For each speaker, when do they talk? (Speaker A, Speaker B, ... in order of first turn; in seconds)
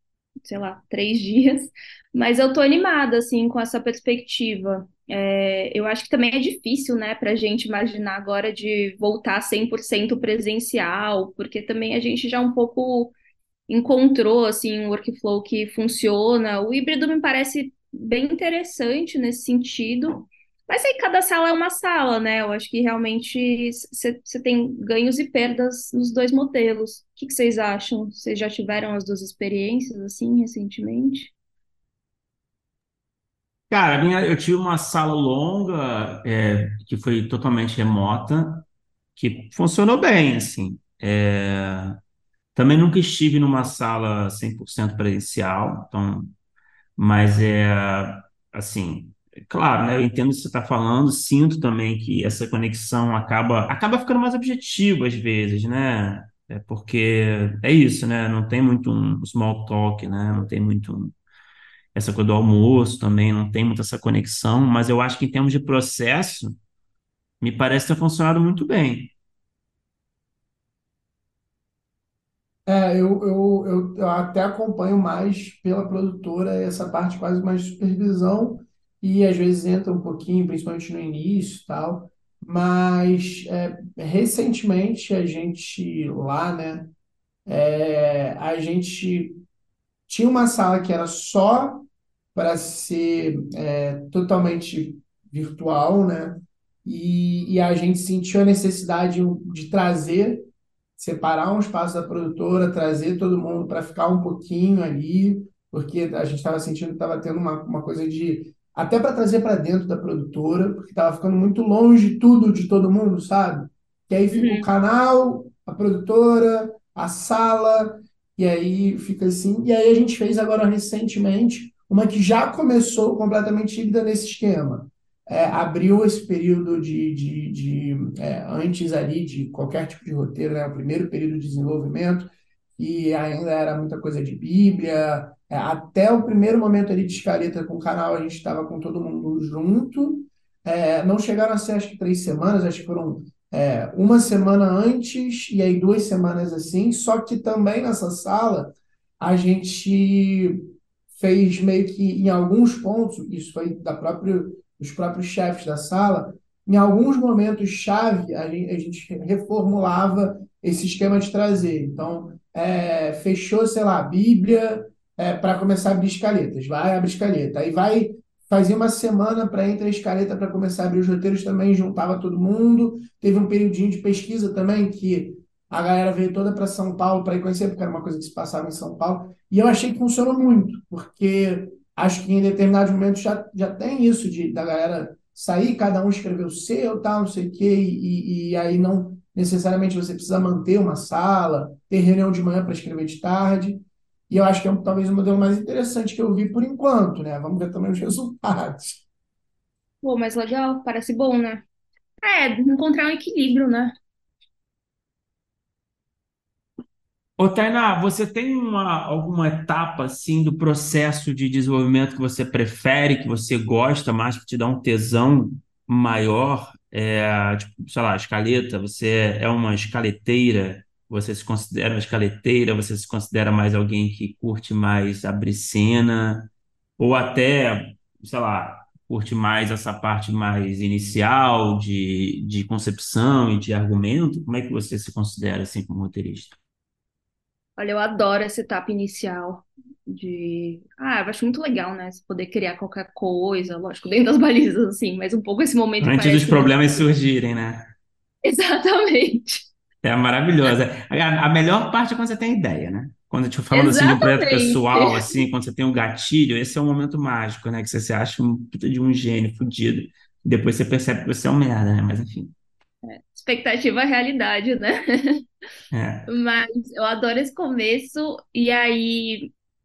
Speaker A: 0.4-13.1, 13.7-31.3, 114.3-114.7, 200.0-201.7, 202.2-203.9, 237.8-247.0, 248.4-249.7, 253.7-255.4, 263.0-265.4, 266.3-269.5
Speaker B: 33.7-38.6, 39.1-42.0, 42.5-46.3, 47.0-61.1, 61.9-66.6, 67.4-69.1, 207.4-236.6, 246.0-247.9, 250.0-262.5, 265.9-266.3
Speaker C: 72.7-86.9, 87.5-89.4, 90.1-199.0